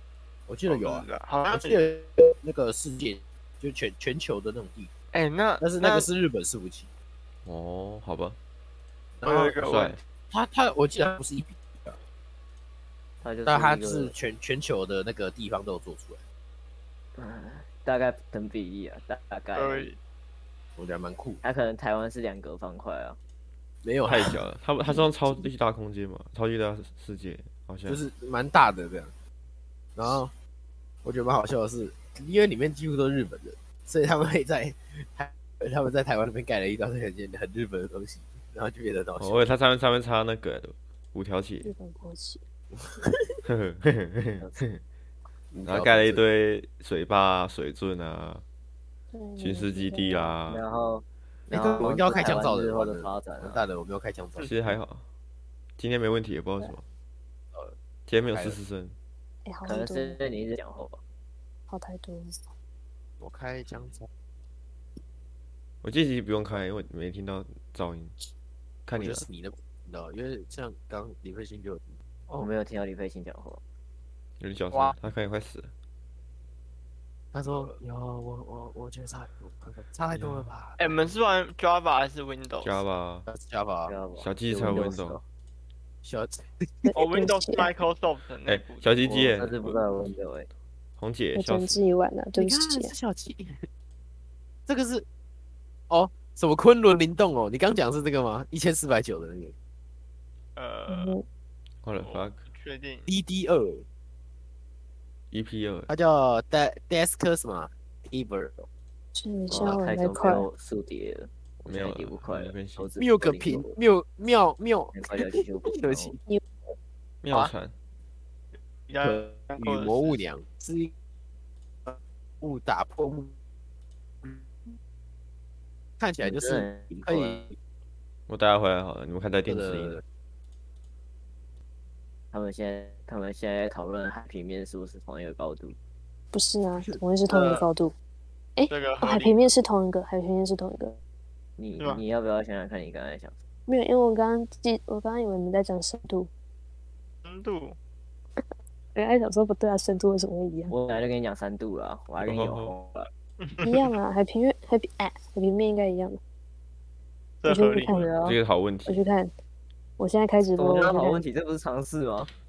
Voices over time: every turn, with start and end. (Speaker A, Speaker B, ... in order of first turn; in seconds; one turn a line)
Speaker A: 0.5-4.9
Speaker B: 0.7-1.8
Speaker B: 5.1-6.1
Speaker A: 5.6-6.9
Speaker C: 7.4-8.4
Speaker A: 9.2-9.7
Speaker B: 9.2-10.0
Speaker C: 9.6-10.0
Speaker A: 10.3-12.0
Speaker D: 13.2-14.1
Speaker A: 13.4-16.2
Speaker D: 17.1-19.9
Speaker B: 19.5-20.0
Speaker A: 20.8-21.4
Speaker D: 21.4-23.2
Speaker A: 23.8-24.4
Speaker C: 24.1-28.0
Speaker A: 27.9-29.1
Speaker A: 29.9-30.3
Speaker A: 31.0-39.5
Speaker C: 39.2-41.7
Speaker E: 41.6-42.4
Speaker A: 42.8-43.4
Speaker C: 43.5-44.8
Speaker A: 45.5-46.2
Speaker C: 45.6-48.4
Speaker E: 49.1-50.4
Speaker C: 49.4-50.6
Speaker D: 50.5-53.6
Speaker A: 51.5-54.5
Speaker C: 54.4-55.0
Speaker C: 55.8-56.8
Speaker C: 58.1-58.9
Speaker A: 58.2-58.6
Speaker E: 59.5-60.2
Speaker D: 59.6-61.0
Speaker E: 61.7-62.5
Speaker A: 63.2-64.1
Speaker C: 65.8-68.1
Speaker C: 68.8-69.2
Speaker A: 69.0-72.5
Speaker D: 72.3-73.6
Speaker C: 74.4-75.7
Speaker B: 74.7-75.0
Speaker A: 77.3-81.0
Speaker C: 80.2-80.4
Speaker B: 80.8-82.8
Speaker C: 82.6-83.3
Speaker A: 83.3-83.9
Speaker D: 83.8-85.2
Speaker C: 84.2-85.2
Speaker A: 86.0-86.9
Speaker E: 86.8-87.7
Speaker B: 86.9-88.9
Speaker C: 88.5-89.8
Speaker D: 89.0-90.5
Speaker C: 91.0-91.8
Speaker E: 91.3-92.9
Speaker A: 92.3-93.7
Speaker A: 94.7-95.0
Speaker A: 95.9-99.5
Speaker B: 100.5-101.1
Speaker E: 100.9-101.2
Speaker C: 101.8-102.4
Speaker B: 102.0-103.1
Speaker A: 103.1-103.8
Speaker C: 105.3-105.9
Speaker A: 105.9-108.7
Speaker E: 109.1-110.5
Speaker D: 109.5-113.8
Speaker C: 111.7-112.8
Speaker A: 113.0-116.2
Speaker D: 114.9-116.2
Speaker C: 117.2-117.7
Speaker B: 118.9-120.2
Speaker A: 119.0-120.9
Speaker A: 121.8-123.3
Speaker A: 126.0-127.5
Speaker D: 126.2-127.5
Speaker C: 128.3-130.0
Speaker A: 129.4-130.0
Speaker D: 132.3-135.8
Speaker E: 136.3-137.9
Speaker A: 136.8-137.7
Speaker E: 138.6-141.0
Speaker B: 138.7-139.4
Speaker D: 141.6-143.3
Speaker E: 143.7-146.3
Speaker B: 147.2-147.8
Speaker E: 148.9-150.7
Speaker D: 150.7-153.1
Speaker C: 152.2-152.7
Speaker B: 153.4-153.8
Speaker E: 153.6-156.2
Speaker B: 157.4-157.9
Speaker E: 157.4-158.2
Speaker D: 157.8-158.4
Speaker C: 158.2-159.0
Speaker E: 158.8-159.3
Speaker E: 160.0-161.2
Speaker D: 160.6-162.3